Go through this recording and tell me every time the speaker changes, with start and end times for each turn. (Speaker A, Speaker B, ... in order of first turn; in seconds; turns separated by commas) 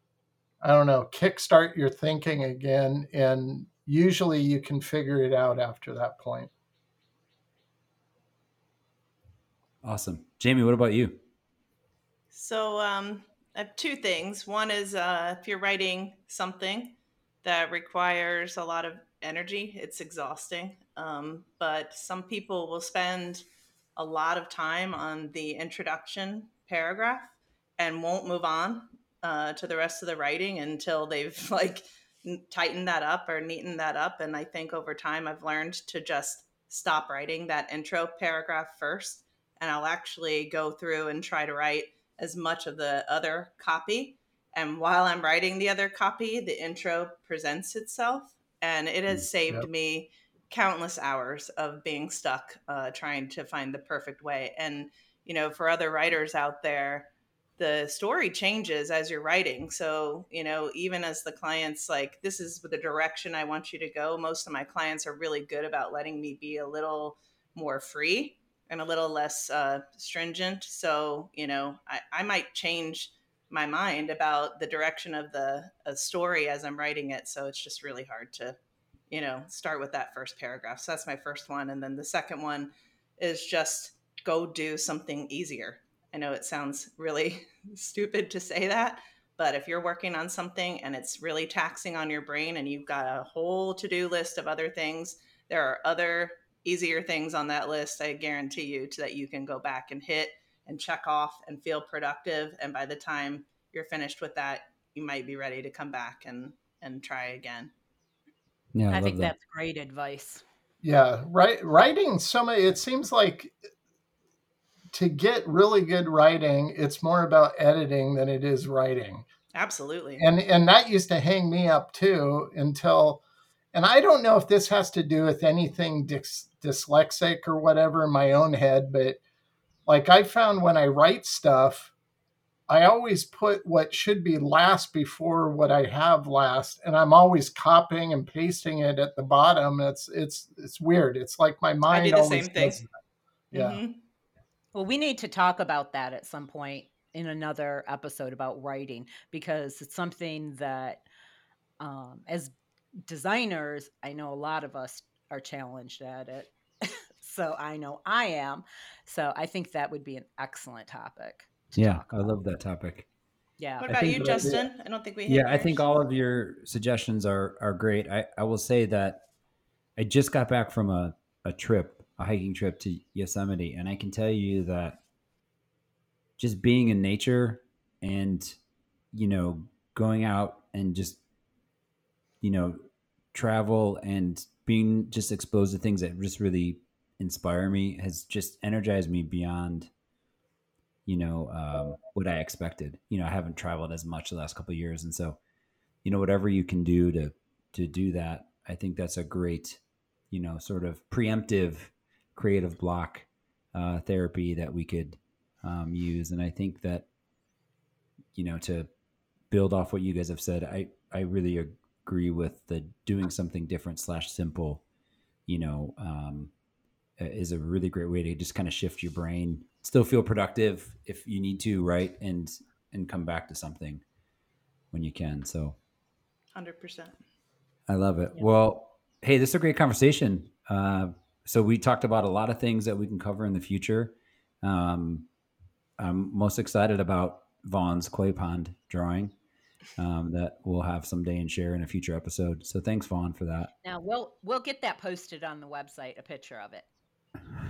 Speaker A: 0.6-6.5, Speaker B: 9.8-11.2, Speaker C: 12.3-23.4, Speaker C: 23.9-78.6, Speaker C: 79.1-107.7, Speaker B: 108.7-109.3, Speaker D: 108.9-110.4, Speaker A: 110.8-113.5, Speaker A: 114.9-119.2, Speaker C: 119.5-120.3, Speaker A: 120.2-123.2, Speaker A: 123.7-129.2, Speaker A: 129.9-131.9, Speaker A: 132.7-142.8, Speaker C: 141.8-142.8, Speaker A: 143.5-143.8, Speaker C: 143.5-144.0, Speaker D: 144.7-151.0, Speaker D: 151.8-152.5, Speaker D: 153.1-162.3, Speaker B: 161.7-163.1, Speaker D: 163.6-164.4, Speaker C: 163.8-165.9, Speaker B: 163.8-164.6, Speaker A: 164.2-164.5, Speaker B: 165.2-169.2, Speaker B: 170.0-175.0, Speaker B: 176.4-178.6, Speaker B: 179.1-181.2, Speaker B: 182.4-182.8, Speaker B: 183.3-189.9, Speaker B: 191.1-195.4, Speaker B: 196.0-207.1, Speaker B: 208.3-208.9, Speaker B: 209.5-214.8, Speaker B: 215.5-216.5, Speaker B: 217.2-224.0, Speaker B: 224.9-225.8, Speaker C: 226.5-227.2, Speaker B: 227.9-235.3, Speaker B: 236.0-239.3, Speaker B: 240.0-243.7, Speaker D: 243.8-246.9